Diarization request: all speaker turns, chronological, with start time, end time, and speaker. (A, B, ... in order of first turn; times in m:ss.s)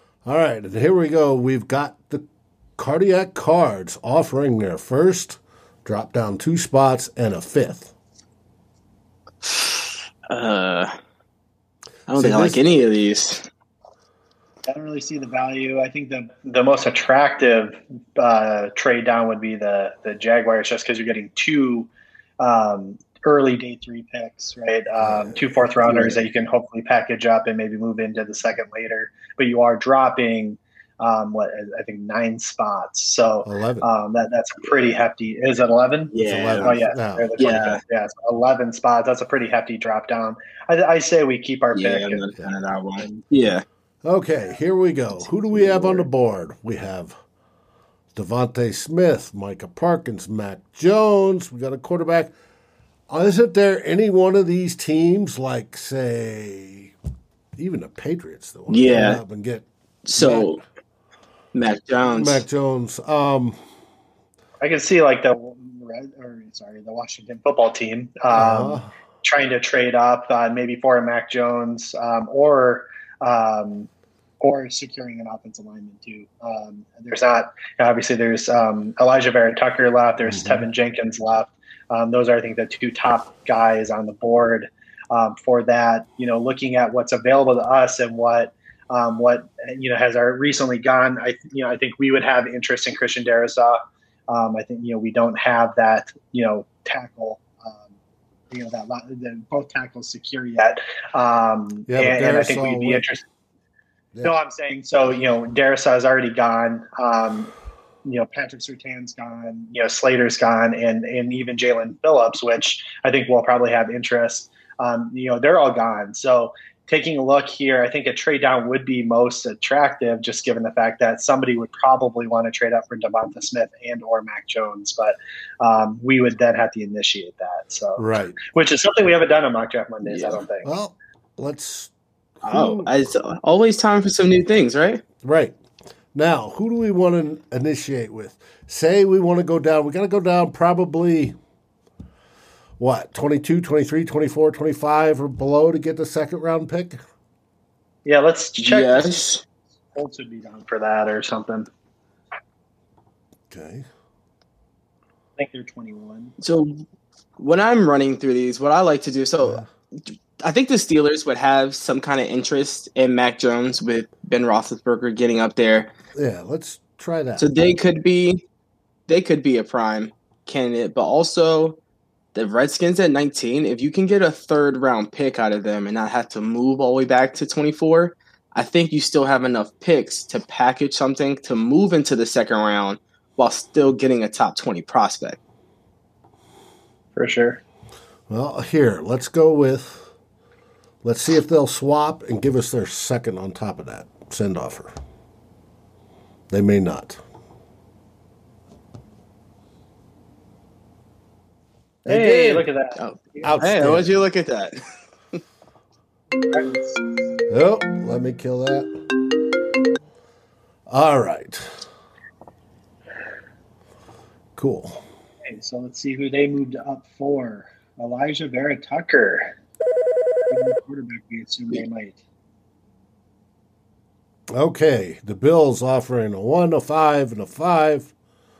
0:00.2-0:02.2 A
0:02.8-0:07.9 A
0:09.4-0:10.9 B
0:12.1-0:13.5 B
0:12.1-0:12.6 A
0:14.7-0:21.9 C
0:22.4-0:42.2 C
0:25.0-0:25.4 A
0:33.4-0:33.9 A
0:36.1-0:36.8 B
0:36.2-0:37.3 A
0:37.4-0:37.8 B
0:41.7-0:43.6 B
0:44.0-0:47.2 A
0:48.1-0:52.3 A
0:53.1-0:56.9 A
0:57.6-0:59.6 A
0:58.7-0:59.2 B
1:00.0-1:00.6 B
1:00.2-1:00.5 A
1:01.5-1:02.4 B
1:02.0-1:03.6 A
1:04.6-1:13.9 C
1:08.3-1:08.9 A
1:14.4-1:33.8 C
1:20.2-1:20.6 A
1:34.3-1:37.8 C
1:38.5-1:43.2 C
1:41.9-1:43.0 A
1:44.2-1:47.5 C
1:48.0-2:10.7 C
2:08.0-2:08.4 A
2:10.0-2:10.4 B
2:10.6-2:12.9 A
2:12.4-2:15.0 B
2:15.2-2:15.6 A
2:16.1-2:21.3 A
2:22.8-2:27.0 A
2:28.0-2:29.3 C
2:28.6-2:29.4 B
2:29.9-2:31.7 C
2:33.5-2:33.9 A
2:35.4-2:36.3 C
2:36.4-2:36.8 B
2:37.4-2:45.9 B
2:46.2-2:47.7 A
2:47.4-2:48.4 B
2:49.1-2:51.8 B
2:52.3-3:05.4 B
3:07.2-3:07.6 C
3:08.3-3:10.1 A
3:11.0-3:14.9 A
3:16.5-3:17.2 A
3:22.0-3:22.7 A
3:22.0-3:23.4 C
3:23.0-3:24.8 B
3:23.4-3:24.2 A
3:26.5-3:27.0 C
3:27.5-3:28.9 A
3:30.9-3:31.8 A
3:34.6-3:35.0 A
3:35.5-3:39.5 C
3:40.5-3:42.2 C
3:44.5-3:48.1 A